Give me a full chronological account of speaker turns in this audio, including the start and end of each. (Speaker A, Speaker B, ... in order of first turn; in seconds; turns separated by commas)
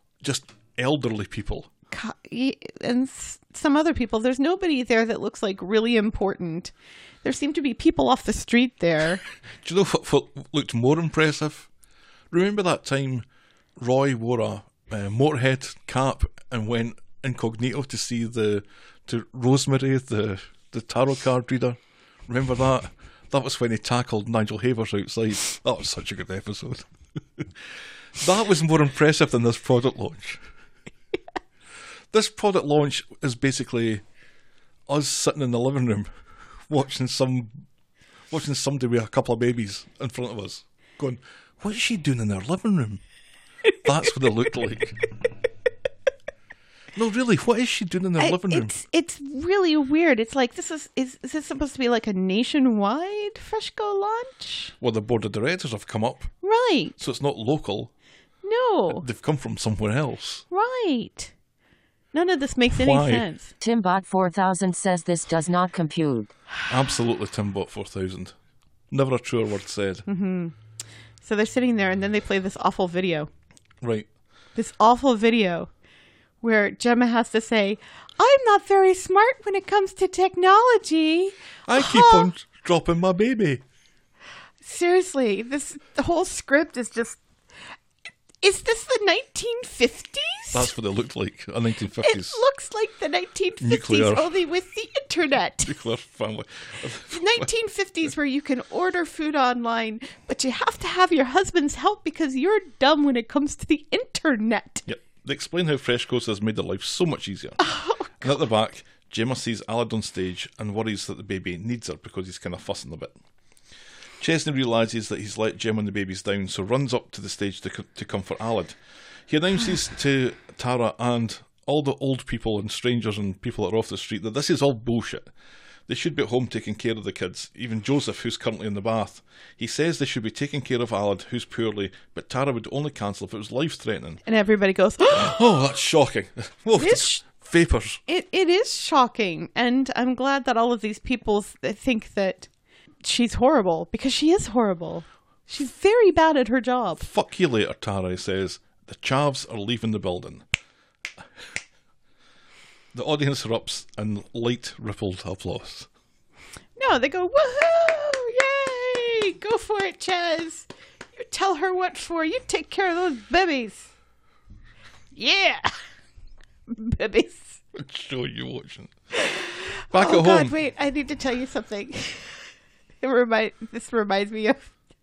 Speaker A: 0.2-1.7, Speaker B: 1.9-9.2, Speaker A: 9.6-11.7, Speaker A: 12.3-13.3, Speaker A: 13.8-27.6, Speaker A: 28.2-30.4, Speaker A: 32.1-34.0, Speaker A: 34.9-36.1, Speaker A: 36.7-37.6, Speaker A: 38.3-43.0, Speaker A: 43.8-45.0, Speaker A: 47.0-48.7, Speaker B: 48.2-54.7, Speaker A: 54.8-56.3, Speaker B: 56.4-57.0, Speaker A: 57.0-57.9, Speaker B: 58.4-59.1, Speaker A: 58.9-60.4, Speaker B: 60.5-61.3, Speaker B: 62.1-63.5, Speaker A: 62.7-63.3, Speaker C: 63.6-66.3, Speaker A: 66.7-68.3, Speaker A: 68.9-70.0, Speaker B: 70.1-70.5, Speaker B: 71.2-73.3, Speaker A: 73.8-74.1, Speaker B: 74.6-75.7, Speaker B: 76.4-82.3, Speaker A: 81.7-83.6, Speaker B: 84.6-87.2, Speaker B: 88.4-90.7, Speaker A: 90.5-92.4, Speaker B: 92.0-95.8, Speaker A: 93.6-94.3, Speaker A: 95.6-97.5, Speaker B: 97.1-104.8, Speaker A: 104.9-107.6, Speaker B: 107.6-108.3, Speaker A: 108.2-113.2, Speaker A: 114.2-125.3, Speaker A: 125.9-134.2, Speaker B: 134.2-135.4, Speaker A: 135.1-138.0, Speaker B: 136.8-137.2, Speaker B: 138.1-142.5, Speaker B: 143.0-147.1, Speaker A: 147.0-150.4, Speaker A: 152.9-155.9, Speaker B: 156.8-163.9, Speaker B: 165.2-165.7, Speaker B: 166.7-167.6, Speaker A: 167.7-168.9, Speaker B: 169.2-172.4, Speaker A: 169.9-170.6, Speaker B: 173.0-174.7